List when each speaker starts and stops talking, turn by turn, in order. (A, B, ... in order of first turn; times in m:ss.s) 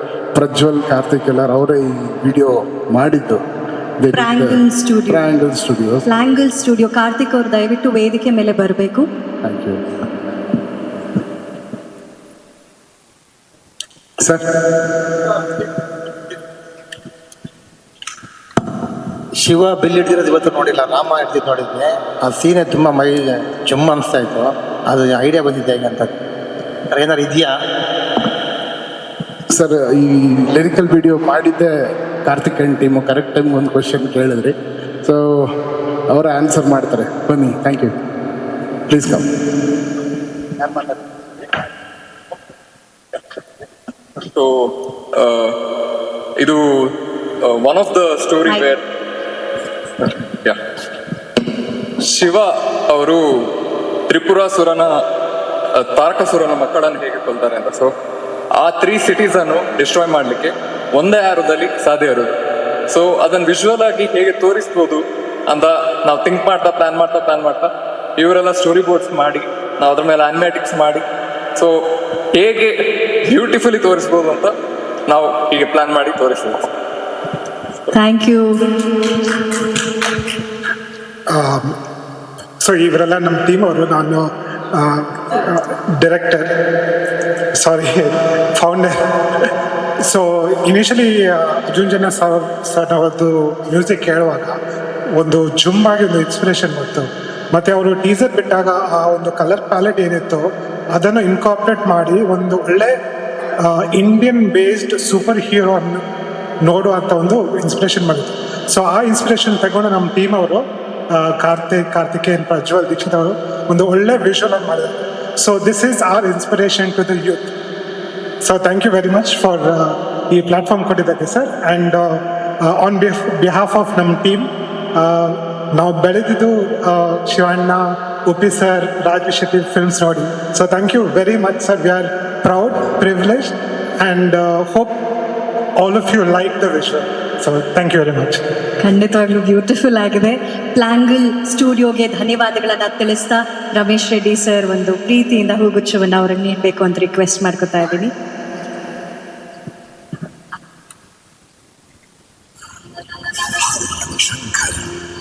0:00.4-0:03.4 A
0:04.0-0:04.6 A
0:04.1-0:05.2 B
0:05.1-0:06.1 A
0:06.1-0:09.1 B
0:09.4-0:10.6 A
0:14.2-0:14.4 A
0:19.4-0:26.1 C
0:26.9-0:27.5 C
0:29.5-0:31.7 A
0:32.3-0:35.5 A
0:36.1-0:37.9 A
0:38.9-0:39.3 A
0:40.6-0:41.0 C
0:44.2-0:44.5 D
0:45.2-0:45.6 D
0:47.4-0:48.8 D
0:50.0-0:50.6 D
0:52.0-0:53.4 D
0:54.1-0:54.9 D
0:55.8-0:57.9 D
0:58.6-1:02.3 D
1:02.9-1:11.0 D
1:12.3-1:14.5 D
1:15.1-1:16.6 D
1:17.9-1:18.6 B
1:21.3-1:21.8 E
1:22.6-1:26.5 E
1:27.6-1:29.0 E
1:30.0-1:34.6 E
1:35.1-1:42.9 E
1:43.6-1:46.0 E
1:46.6-1:57.5 E
1:58.4-2:15.0 E
2:15.8-2:18.4 E
2:18.8-2:28.1 B
2:33.6-2:34.9 A